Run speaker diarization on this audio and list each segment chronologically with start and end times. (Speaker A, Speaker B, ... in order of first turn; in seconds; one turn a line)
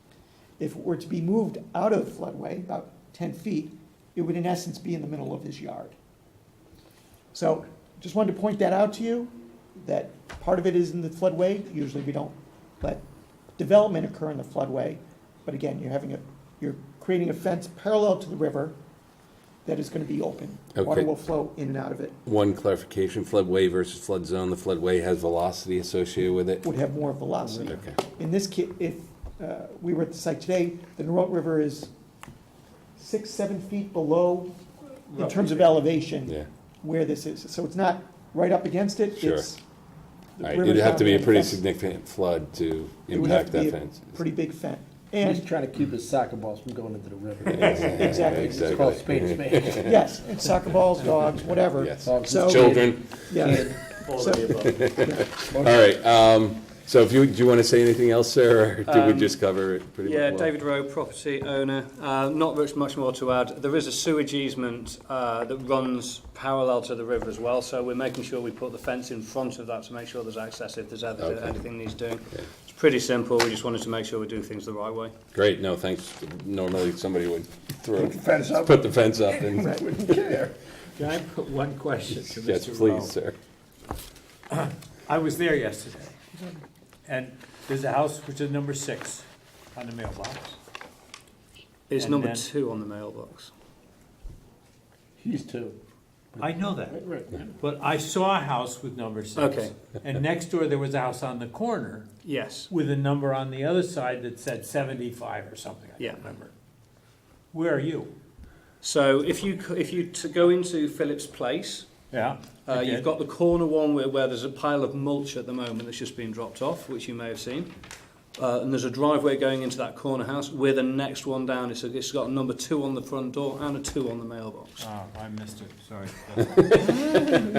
Speaker A: 0.6-6.0
Speaker A: 7.3-13.0
Speaker A: 13.6-18.8
Speaker A: 19.6-22.2
Speaker B: 20.8-21.1
Speaker B: 22.3-26.6
Speaker A: 26.6-31.9
Speaker C: 27.4-27.8
Speaker B: 27.7-28.0
Speaker A: 33.0-34.6
Speaker A: 35.1-39.6
Speaker D: 35.2-35.5
Speaker B: 39.2-39.5
Speaker A: 40.4-41.6
Speaker B: 40.4-44.2
Speaker A: 43.1-45.5
Speaker C: 45.2-50.0
Speaker B: 47.5-50.0
Speaker A: 47.6-48.8
Speaker A: 49.8-55.3
Speaker B: 51.6-53.8
Speaker C: 52.0-54.7
Speaker E: 54.2-54.7
Speaker B: 54.6-60.5
Speaker C: 55.5-55.9
Speaker E: 58.9-59.3
Speaker E: 60.0-75.1
Speaker B: 71.2-71.6
Speaker B: 75.3-80.3
Speaker C: 78.0-79.0
Speaker C: 79.6-80.6
Speaker D: 81.0-83.1
Speaker B: 82.3-83.4
Speaker D: 84.5-90.6
Speaker E: 91.9-93.5
Speaker D: 92.0-92.5
Speaker C: 95.2-95.8
Speaker C: 96.3-97.5
Speaker D: 96.4-97.0
Speaker D: 97.6-102.1
Speaker E: 99.4-99.7
Speaker E: 102.2-102.7
Speaker D: 102.7-106.5
Speaker E: 106.0-106.3
Speaker D: 107.5-108.1
Speaker E: 108.8-112.0
Speaker D: 112.1-113.1
Speaker E: 112.7-117.7
Speaker E: 118.4-124.8
Speaker D: 124.8-127.5
Speaker B: 126.6-127.4